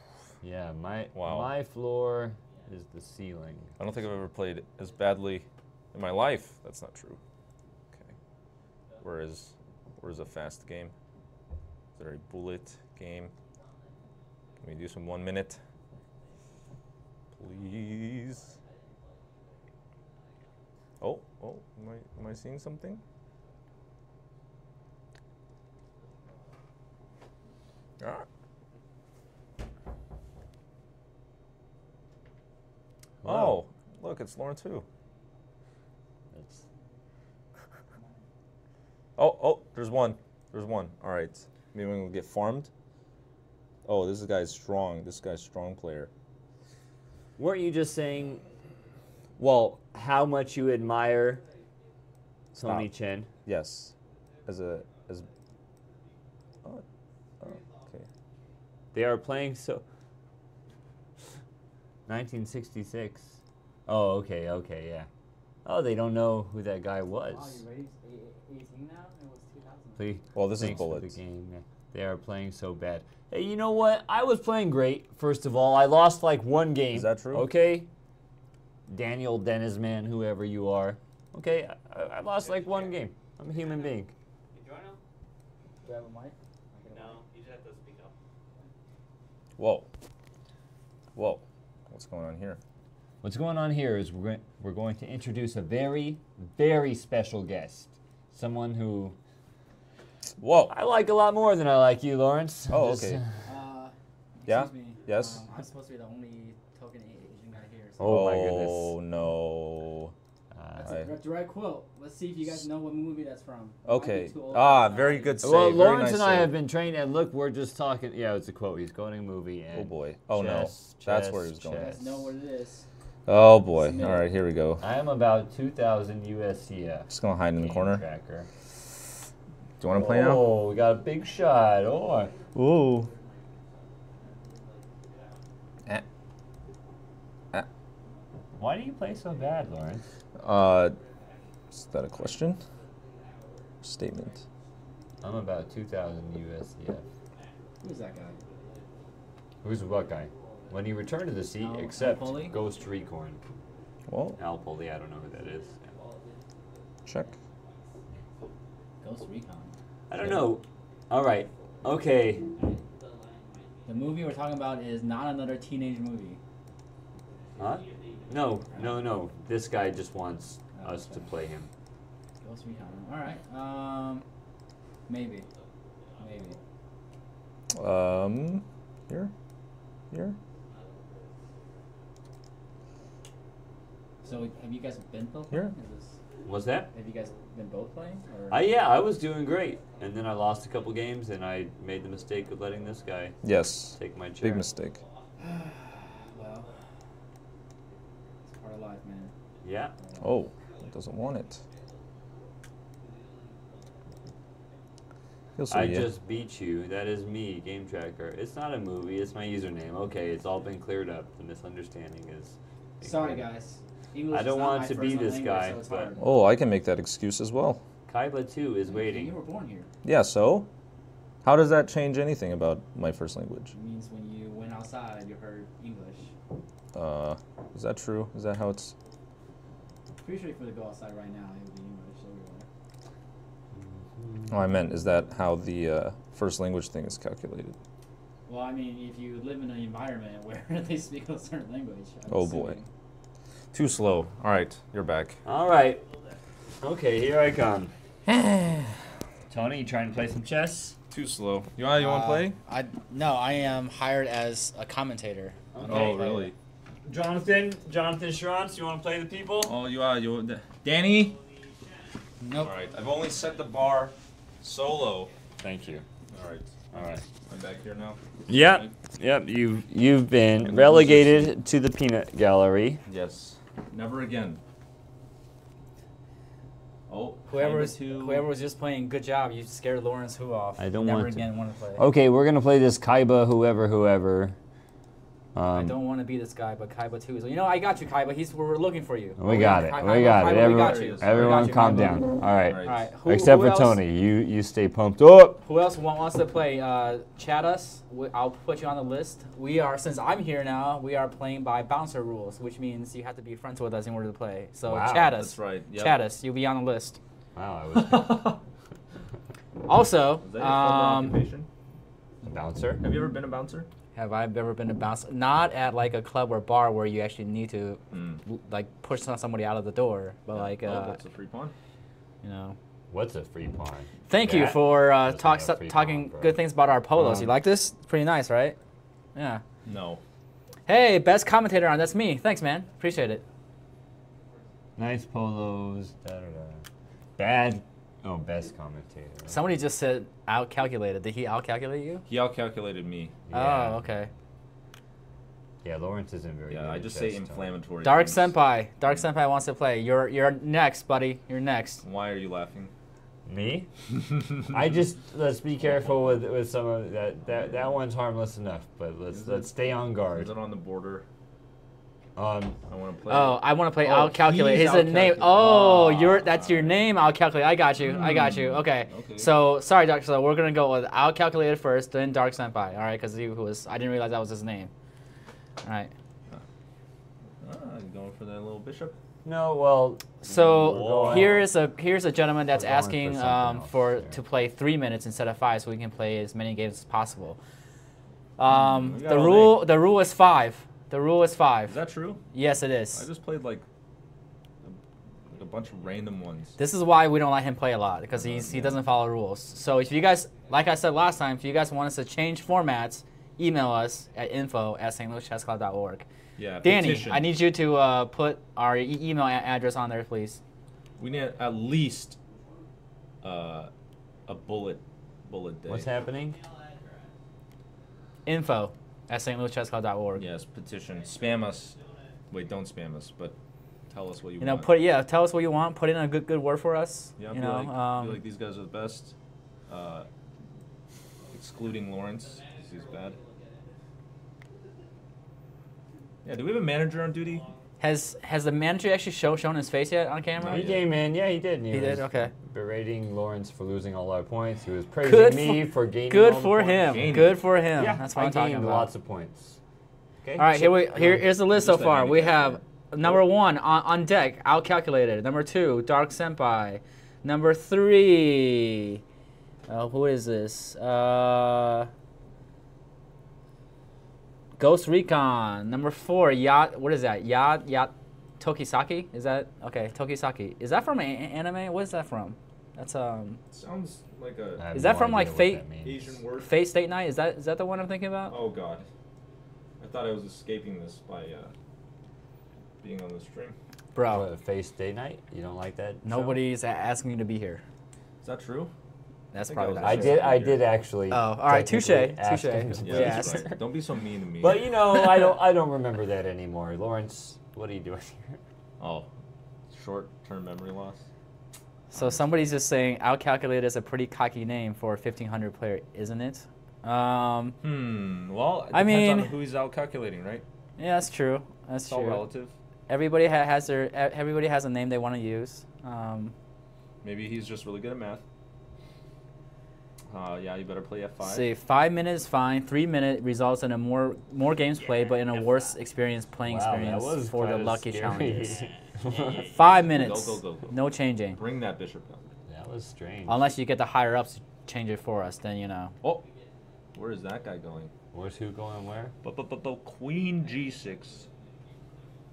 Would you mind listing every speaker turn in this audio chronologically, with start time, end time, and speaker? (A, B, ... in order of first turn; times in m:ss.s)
0:00.4-0:03.8 A
0:01.1-0:01.5 B
0:03.8-0:07.2 B
0:08.9-0:09.1 C
0:09.0-0:10.9 B
0:12.0-0:13.3 B
0:13.6-0:13.9 C
0:14.6-0:15.6 B
0:17.3-0:18.5 B
0:17.8-0:19.6 C
0:21.0-0:23.0 B
0:28.0-0:28.3 B
0:33.2-0:33.6 A
0:33.2-0:34.8 B
0:36.3-0:36.6 A
0:39.2-0:42.7 B
0:43.8-0:46.1 B
0:47.4-0:48.4 A
0:49.4-0:51.4 A
0:52.5-0:53.3 A
0:52.6-0:52.9 B
0:53.4-0:53.9 B
0:54.4-0:55.3 B
0:54.5-0:55.3 C
0:57.4-0:57.9 C
0:57.4-0:58.0 B
0:58.9-0:59.8 A
1:02.1-1:05.1 A
1:05.6-1:07.6 A
1:07.3-1:10.0 D
1:10.0-1:17.9 A
1:10.3-1:11.1 B
1:16.9-1:17.5 B
1:18.9-1:24.1 A
1:22.6-1:22.9 C
1:24.5-1:25.0 C
1:25.8-1:27.2 D
1:26.9-1:28.1 C
1:29.6-1:29.9 B
1:31.1-1:32.6 B
1:33.2-1:39.2 A
1:40.4-1:40.7 B
1:40.7-1:43.2 A
1:42.7-1:43.2 B
1:43.4-1:48.2 D
1:44.4-1:45.4 B
1:48.0-1:49.0 A
1:48.0-1:50.1 B
1:50.5-1:51.0 A
1:50.8-1:55.8 D
1:53.8-1:56.5 B
1:55.4-2:02.3 A
1:59.7-2:02.0 B
2:01.7-2:02.9 D
2:03.3-2:04.8 B
2:03.8-2:04.2 D
2:04.8-2:08.5 A
2:07.1-2:08.0 B
2:09.8-2:10.5 B
2:09.9-2:12.3 A
2:11.3-2:15.5 C
2:12.5-2:13.1 B
2:18.6-2:20.0 A
2:20.4-2:21.0 B
2:20.9-2:21.4 C
2:21.7-2:22.6 B
2:22.3-2:24.6 C
2:23.8-2:24.4 B
2:25.2-2:27.0 A
2:27.3-2:29.2 C
2:27.8-2:28.4 D
2:29.6-2:33.4 A
2:30.3-2:30.7 C
2:31.6-2:32.6 D
2:32.6-2:32.9 C
2:34.1-2:34.4 B
2:34.4-2:35.8 A
2:35.4-2:37.9 C
2:37.0-2:37.3 B
2:39.0-2:39.7 D
2:40.1-2:42.5 A
2:42.6-2:44.6 C
2:43.8-2:46.4 D
2:47.3-2:48.6 C
2:47.6-2:51.7 A
2:50.7-2:51.3 D
2:52.4-2:54.2 D
2:55.1-2:55.4 D
2:55.4-2:56.6 C
2:56.2-2:56.6 D
2:57.7-2:59.3 B
3:00.1-3:00.4 B
3:00.6-3:01.8 C
3:04.2-3:06.2 D
3:06.4-3:06.9 A
3:06.9-3:08.7 D
3:08.5-3:13.4 A
3:09.8-3:10.2 C
3:12.0-3:13.4 C
3:13.4-3:15.0 B
3:13.9-3:14.7 A
3:14.7-3:15.4 C
3:15.4-3:16.7 D
3:16.0-3:16.8 C
3:18.5-3:19.3 D
3:19.6-3:19.9 A
3:20.0-3:20.3 D
3:20.2-3:21.6 B
3:20.6-3:22.0 C
3:23.0-3:24.0 C
3:25.6-3:26.1 B
3:25.7-3:33.4 A
3:33.0-3:36.3 D
3:34.3-3:36.1 A
3:36.2-3:37.8 B
3:38.1-3:39.3 A
3:38.9-3:39.9 D
3:40.0-3:40.7 B
3:41.4-3:43.7 B
3:43.7-3:46.3 D
3:46.9-3:48.9 B
3:50.2-3:52.7 D
3:54.2-3:54.5 A
3:54.5-3:57.8 B
3:58.5-4:02.9 D
4:02.3-4:02.8 B
4:03.7-4:05.4 B
4:05.4-4:06.0 A
4:06.8-4:07.9 A
4:08.3-4:08.9 B
4:09.5-4:11.0 A
4:11.1-4:12.6 B
4:11.9-4:16.5 D
4:15.7-4:16.2 A
4:15.8-4:16.5 B
4:17.0-4:19.7 A
4:19.6-4:21.4 B
4:22.4-4:22.7 D
4:22.6-4:25.3 B
4:25.6-4:26.0 A
4:26.3-4:28.9 B
4:26.9-4:27.2 A
4:28.5-4:33.0 A
4:30.6-4:31.5 B
4:33.0-4:34.6 B
4:37.1-4:38.5 B
4:37.5-4:42.0 D
4:40.8-4:44.6 A
4:45.5-4:45.9 A
4:45.7-4:52.3 D
4:49.4-4:55.6 A
4:50.1-4:51.8 B
4:52.6-4:53.0 B
4:52.8-4:54.0 D
4:55.6-5:07.2 D
5:04.8-5:05.3 A
5:05.3-5:06.2 B
5:07.6-5:08.5 A
5:08.0-5:08.6 B
5:09.8-5:11.4 D
5:10.4-5:11.7 B
5:12.4-5:13.0 A
5:13.0-5:13.9 B
5:14.1-5:21.2 D
5:18.1-5:18.4 B
5:20.5-5:21.7 B
5:22.4-5:22.8 D
5:23.1-5:26.6 A
5:24.3-5:28.8 D
5:27.1-5:27.5 A
5:29.3-5:29.6 D
5:29.8-5:30.2 B
5:30.9-5:33.4 D
5:35.0-5:36.8 A
5:37.4-5:39.6 A
5:39.5-5:42.2 D
5:42.3-5:43.4 B
5:43.5-5:44.1 A
5:43.5-5:44.3 D
5:45.8-5:47.8 A
5:46.7-5:48.5 B
5:48.0-5:52.0 D
5:52.0-5:52.9 B
5:53.4-5:53.9 A
5:54.6-6:00.5 A
5:57.5-5:57.8 B
5:59.3-6:01.2 B
6:02.4-6:02.8 A
6:02.9-6:07.0 B
6:03.3-6:14.9 D
6:08.0-6:09.5 B
6:15.8-6:16.1 D
6:17.6-6:19.2 B
6:19.4-6:21.6 A
6:20.4-6:27.6 D
6:20.8-6:21.6 B
6:22.7-6:24.4 A
6:28.6-6:32.0 D
6:28.7-6:29.9 B
6:31.9-6:32.4 B
6:32.5-6:33.2 D
6:33.1-6:33.8 B
6:35.5-6:36.8 B
6:36.8-6:46.2 D
6:38.3-6:39.0 B
6:46.6-6:47.5 B
6:46.8-6:50.6 D
6:51.2-6:52.4 B
6:53.4-6:53.9 B
6:54.5-6:56.1 B
6:55.8-6:56.6 A
6:56.3-6:57.3 C
6:58.4-7:00.4 D
7:00.4-7:02.0 B
7:01.2-7:02.4 C
7:02.5-7:03.6 B
7:04.1-7:04.9 B
7:04.6-7:08.4 D
7:07.4-7:09.3 B
7:09.9-7:10.3 B
7:11.5-7:13.4 B
7:12.2-7:14.0 C
7:16.4-7:17.7 B
7:17.2-7:17.9 C
7:18.0-7:21.0 D
7:20.6-7:21.0 B
7:20.7-7:27.4 A
7:21.9-7:22.5 D
7:25.2-7:29.1 D
7:27.0-7:27.6 B
7:28.0-7:29.8 A
7:30.4-7:31.4 A
7:30.6-7:39.2 D
7:31.7-7:33.4 B
7:39.9-7:42.1 D
7:44.8-7:53.6 D
7:53.7-7:54.9 B
7:54.8-7:56.4 A
7:54.9-7:55.8 D
7:56.0-7:56.7 B
7:56.6-7:58.6 D
7:58.5-7:59.1 B
8:00.0-8:01.7 B
8:03.0-8:03.7 B
8:04.1-8:04.4 D
8:04.3-8:06.6 A
8:06.2-8:07.8 D
8:08.4-8:08.9 B
8:09.5-8:10.4 D
8:09.7-8:10.8 B
8:10.0-8:13.8 A
8:11.3-8:13.8 D
8:13.0-8:14.8 B
8:14.6-8:18.6 A
8:19.0-8:19.3 B
8:19.9-8:21.2 B
8:22.1-8:27.8 D
8:22.2-8:22.4 B
8:27.8-8:30.6 B
8:28.9-8:29.5 D
8:31.0-8:32.4 D
8:32.1-8:32.7 B
8:33.1-8:36.5 D
8:37.2-8:38.4 B
8:40.3-8:41.7 B
8:41.4-8:51.6 D
8:46.6-8:49.7 A
8:50.0-8:51.0 B
8:51.5-8:52.5 B
8:52.7-8:53.7 A
8:53.5-8:56.1 D
8:57.1-8:58.1 B
8:58.3-8:59.3 A
8:59.4-9:01.5 B